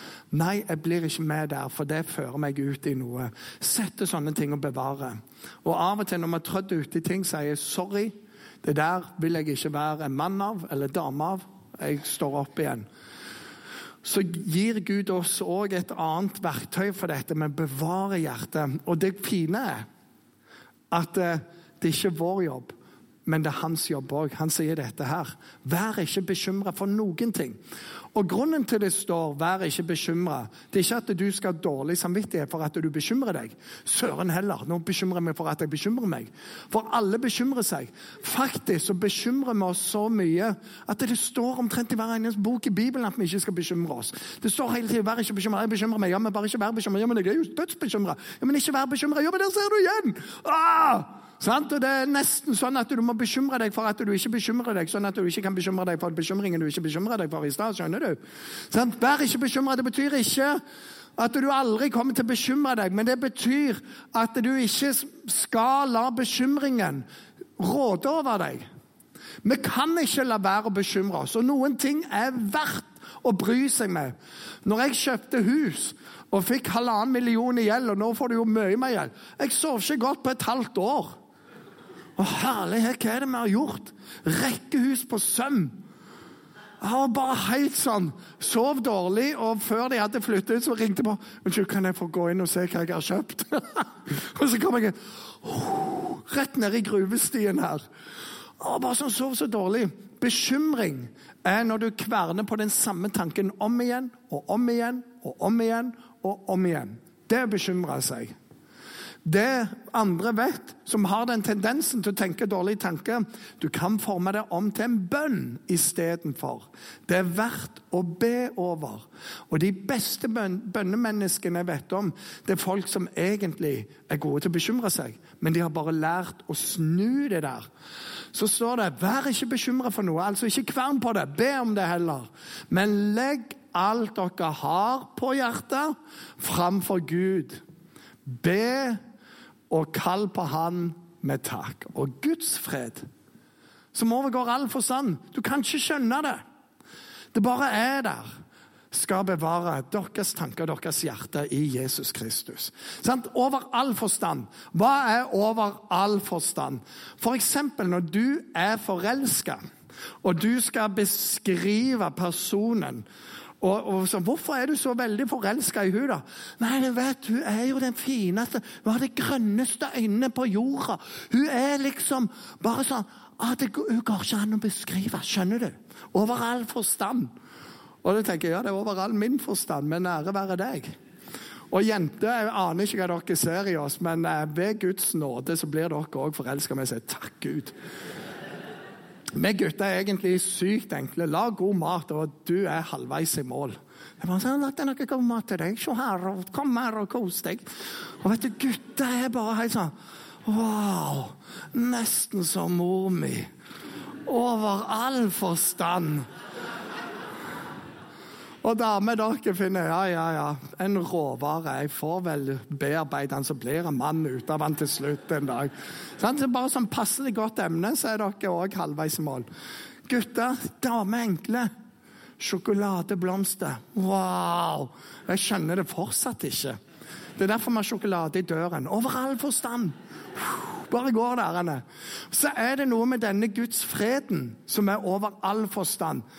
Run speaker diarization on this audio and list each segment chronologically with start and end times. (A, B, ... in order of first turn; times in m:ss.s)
0:00.3-0:12.9 A
0:14.0-0:19.8 A
0:20.9-0:27.6 A
0:28.1-0:58.2 A
0:58.7-1:00.6 A
1:01.2-1:07.1 A
1:07.6-1:08.7 A
1:09.4-1:21.2 A
1:22.2-1:25.8 A
1:26.8-1:37.8 A
1:38.6-1:48.4 A
1:49.2-2:07.7 A
2:08.3-2:17.6 A
2:18.3-2:19.0 A
2:19.7-2:23.1 A
2:23.9-2:26.4 A
2:27.3-2:28.4 A
2:28.9-2:39.6 A
2:40.2-2:43.1 A
2:43.6-2:57.3 A
2:58.0-3:00.9 A
3:01.7-3:07.7 A
3:09.4-3:17.7 A
3:18.2-3:19.9 A
3:20.4-3:23.5 A
3:24.3-3:26.3 A
3:28.6-3:39.5 A
3:40.1-3:41.7 A
3:42.4-3:46.8 A
3:47.4-3:56.2 A